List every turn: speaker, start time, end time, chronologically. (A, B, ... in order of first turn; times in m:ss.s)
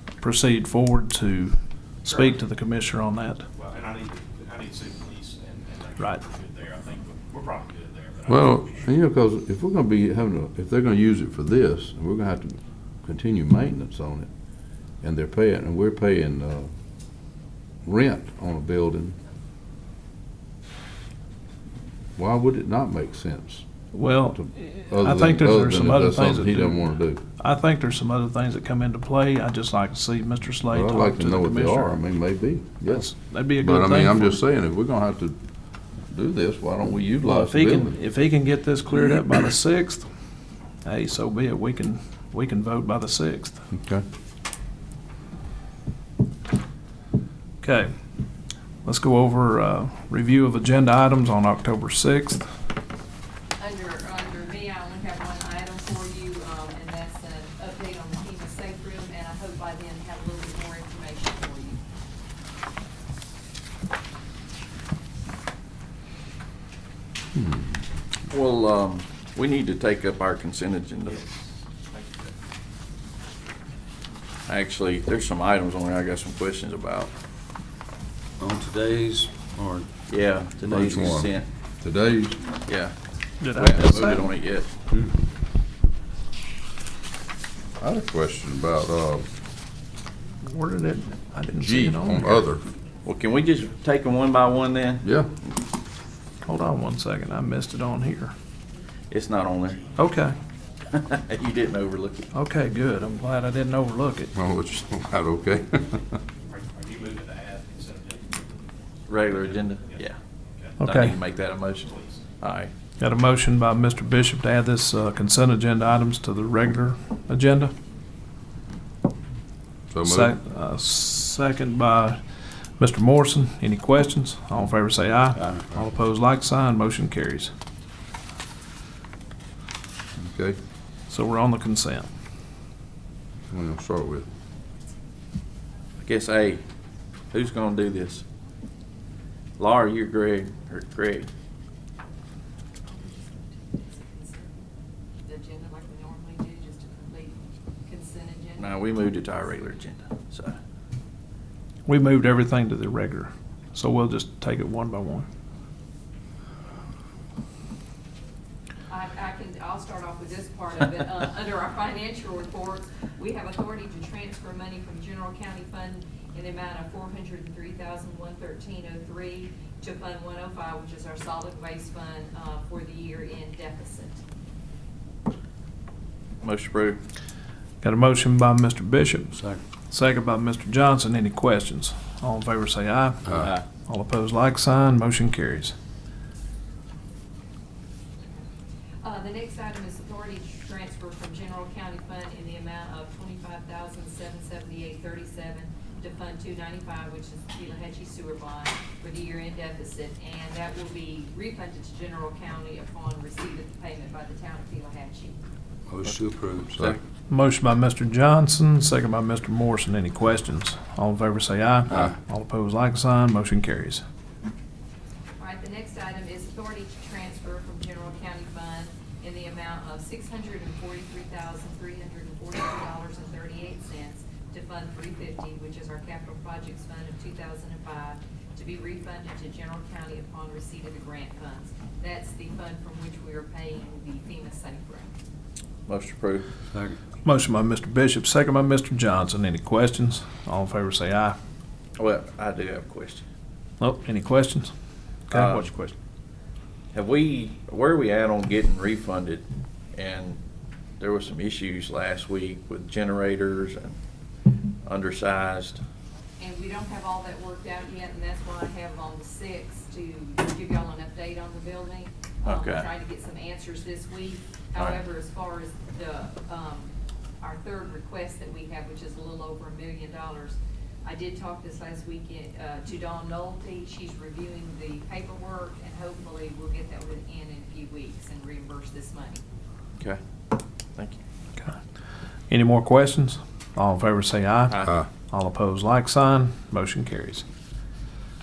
0:00.2-0:03.5 A
0:03.6-0:08.6 B
0:08.3-0:14.3 C
0:15.0-0:16.7 C
0:17.8-0:19.2 C
0:22.2-0:23.7 C
0:23.9-0:31.9 A
0:24.9-0:27.2 C
0:30.7-0:35.4 C
0:32.9-0:34.4 A
0:36.1-0:38.0 C
0:37.2-0:40.1 A
0:40.8-0:43.6 A
0:43.7-0:44.0 C
0:47.6-0:47.9 A
0:48.8-0:52.5 A
0:53.6-1:01.8 D
1:07.4-1:07.8 C
1:08.3-1:11.2 E
1:14.5-1:17.1 E
1:18.4-1:19.9 F
1:20.1-1:21.5 E
1:20.7-1:22.4 C
1:22.7-1:24.7 E
1:23.4-1:24.3 A
1:27.8-1:29.3 C
1:30.4-1:32.4 A
1:31.6-1:32.6 C
1:33.0-1:35.1 E
1:36.5-1:38.3 A
1:39.1-1:39.8 E
1:40.0-1:40.4 A
1:40.9-1:42.3 E
1:42.3-1:44.3 A
1:44.4-1:46.1 C
1:46.5-1:48.4 B
1:49.1-1:50.2 E
1:50.8-1:52.7 E
1:50.8-1:51.2 A
1:53.0-1:57.7 A
1:59.9-2:00.4 C
2:00.0-2:07.5 A
2:10.2-2:10.6 C
2:11.1-2:12.1 A
2:13.5-2:14.3 C
2:16.0-2:16.6 E
2:17.3-2:18.2 E
2:19.6-2:21.3 E
2:22.9-2:24.7 D
2:25.3-2:29.3 D
2:28.6-2:30.6 E
2:31.9-2:35.3 A
2:38.9-2:54.2 D
2:56.4-2:57.0 E
2:57.8-2:59.4 A
2:59.3-2:59.6 F
2:59.9-3:05.7 A
3:03.3-3:03.6 E
3:09.0-3:25.4 D
3:25.9-3:26.9 F
3:26.7-3:27.0 E
3:27.3-3:34.0 A
3:35.4-3:55.1 D
3:55.9-3:56.5 E
3:56.7-3:57.0 F
3:57.2-4:01.4 A
4:02.0-4:03.2 E
4:03.8-4:04.7 A
4:05.3-4:06.0 A
4:05.3-4:05.7 E
4:06.9-4:10.4 E
4:11.0-4:14.0 E
4:14.8-4:15.8 E
4:16.4-4:39.4 D
4:22.4-4:22.9 E
4:24.8-4:25.0 E
4:42.5-4:47.4 A